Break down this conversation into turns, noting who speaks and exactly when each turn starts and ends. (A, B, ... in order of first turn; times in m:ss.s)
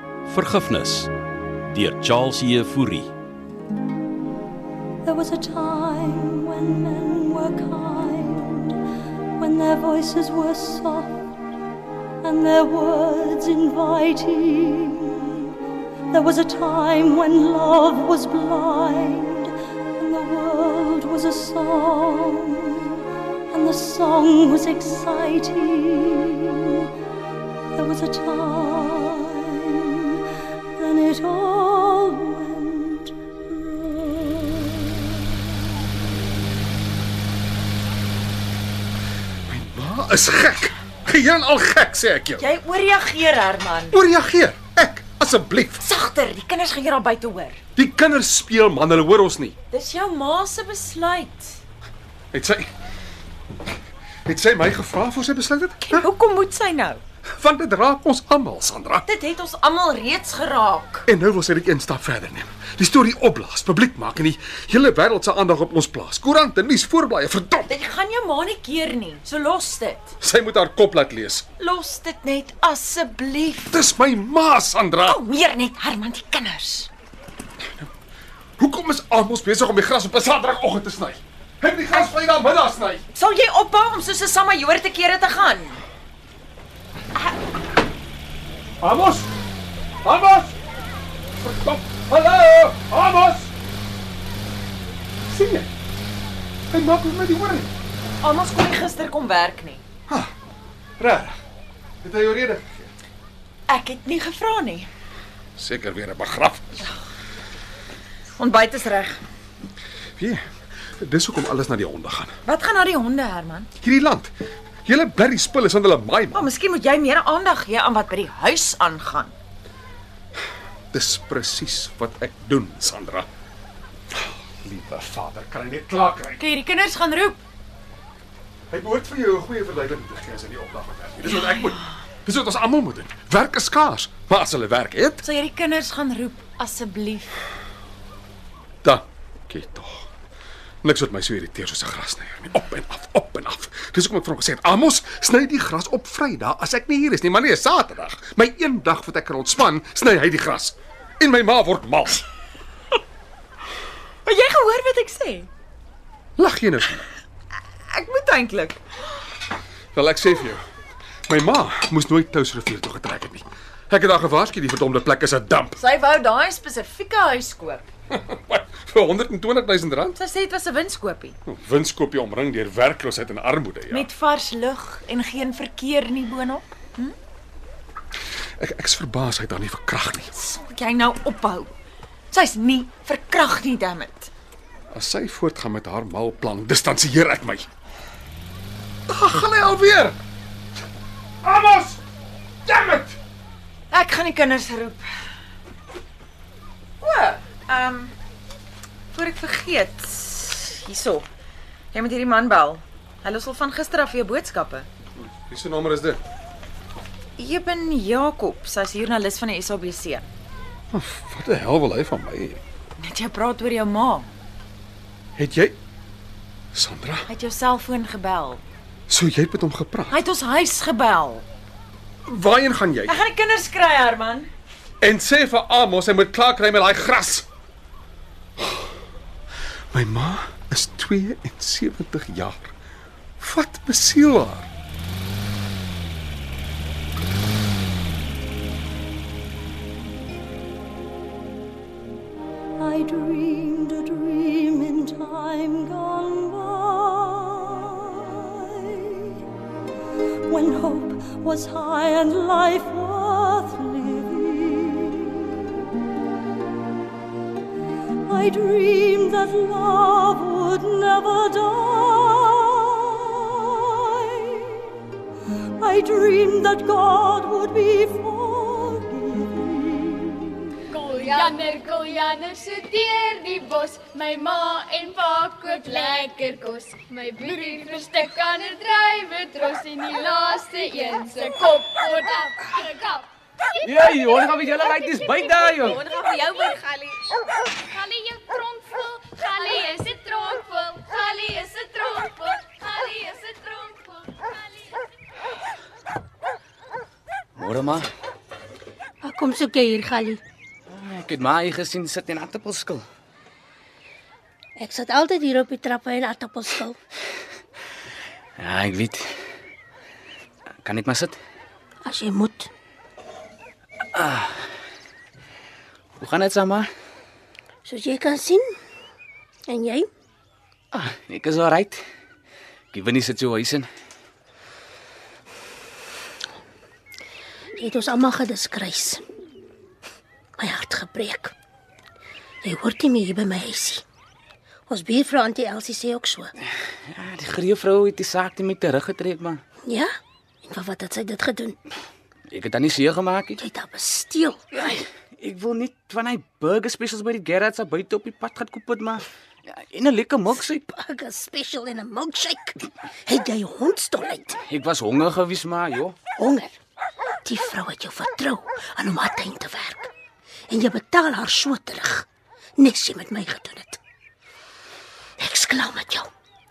0:00.2-0:01.1 A
0:01.7-0:03.1 A
0:05.0-0:08.8 B
0:09.4-0:11.1 B
0:12.2-0:15.4 B
0:16.1-0:23.0 B
0:23.5-0:26.9 B
0:27.7-0:30.2 B
0:30.8-0:34.7 B
0:39.5-0:42.4 C
0:42.4-0:44.0 D
0:43.9-0:45.8 C
0:45.8-0:47.6 D
0:47.8-0:49.6 C
0:49.7-0:51.6 D
0:52.3-0:52.7 C
0:54.2-0:56.1 C
0:55.8-0:57.0 D
0:57.3-0:59.0 C
0:59.0-1:01.0 D
1:01.1-1:07.7 C
1:07.6-1:10.1 D
1:10.2-1:11.4 C
1:11.6-1:13.8 D
1:13.7-1:15.2 C
1:15.0-1:16.9 D
1:18.6-1:23.0 C
1:23.1-1:25.8 D
1:28.8-1:29.3 C
1:30.0-1:30.5 C
1:31.4-1:33.5 C
1:35.3-1:35.7 C
1:36.7-1:37.7 C
1:38.2-1:39.8 D
1:41.0-1:41.4 C
1:42.0-1:42.9 C
1:43.7-1:44.9 D
1:45.6-1:46.7 C
1:48.4-1:49.2 D
1:50.2-1:50.4 C
1:51.0-1:52.3 C
1:52.4-1:53.7 D
1:53.8-1:54.3 C
1:54.8-1:56.5 C
1:56.3-1:59.3 D
2:00.9-2:03.3 C
2:04.6-2:06.4 C
2:06.4-2:07.4 D
2:08.7-2:15.2 C
2:11.3-2:11.7 D
2:15.2-2:17.3 D
2:18.8-2:20.0 C
2:20.8-2:32.2 C
2:34.2-2:35.5 D
2:36.4-2:36.9 C
2:37.9-2:38.8 D
2:39.9-2:40.6 C
2:41.3-2:45.8 C
2:45.8-2:47.9 D
2:48.1-2:50.2 C
2:50.1-2:51.4 D
2:51.5-2:54.1 C
2:53.9-2:57.1 D
2:58.6-3:00.3 C
3:00.3-3:01.7 D
3:02.3-3:04.3 D
3:04.9-3:07.6 C
3:09.1-3:10.2 C
3:11.4-3:12.0 C
3:12.6-3:13.2 C
3:13.9-3:15.0 D
3:17.0-3:18.1 D
3:19.1-3:21.2 D
3:21.9-3:24.9 D
3:25.4-3:26.2 C
3:27.4-3:30.2 D
3:30.9-3:32.6 C
3:33.0-3:34.3 D
3:35.4-3:35.8 C
3:36.7-3:37.3 C
3:37.3-3:38.6 D
3:39.1-3:40.1 C
3:40.1-3:41.4 D
3:42.2-3:43.2 C
3:43.0-3:44.5 D
3:45.0-3:47.4 C
3:49.9-3:52.7 C
3:53.4-3:54.7 C
4:02.8-4:09.3 B
4:10.5-4:15.5 B
4:18.3-4:24.8 B
4:25.8-4:30.5 B
4:30.9-4:43.3 E
4:43.8-4:44.1 E
4:43.8-4:46.1 F
4:45.0-4:47.2 E
4:47.8-4:55.0 E
4:57.6-4:58.1 F
4:59.2-5:00.4 G
5:00.9-5:03.0 F
5:04.8-5:07.0 G
5:08.6-5:09.3 F
5:10.8-5:11.4 F
5:12.0-5:12.7 G
5:14.1-5:14.6 F
5:16.2-5:16.9 F
5:17.8-5:18.7 G
5:19.7-5:20.1 G
5:20.9-5:22.0 F
5:22.9-5:23.9 F
5:27.8-5:29.2 G
5:30.6-5:31.5 G
5:32.6-5:34.0 G
5:34.9-5:36.5 G
5:37.1-5:39.6 F
5:39.8-5:41.8 G
5:42.5-5:43.6 F
5:43.6-5:45.0 G
5:44.8-5:50.8 F
5:50.9-5:54.6 G
5:54.6-5:56.2 F
5:56.4-5:56.8 G
5:57.4-6:00.1 G
6:00.7-6:02.2 G
6:02.8-6:04.0 G
6:05.4-6:06.3 G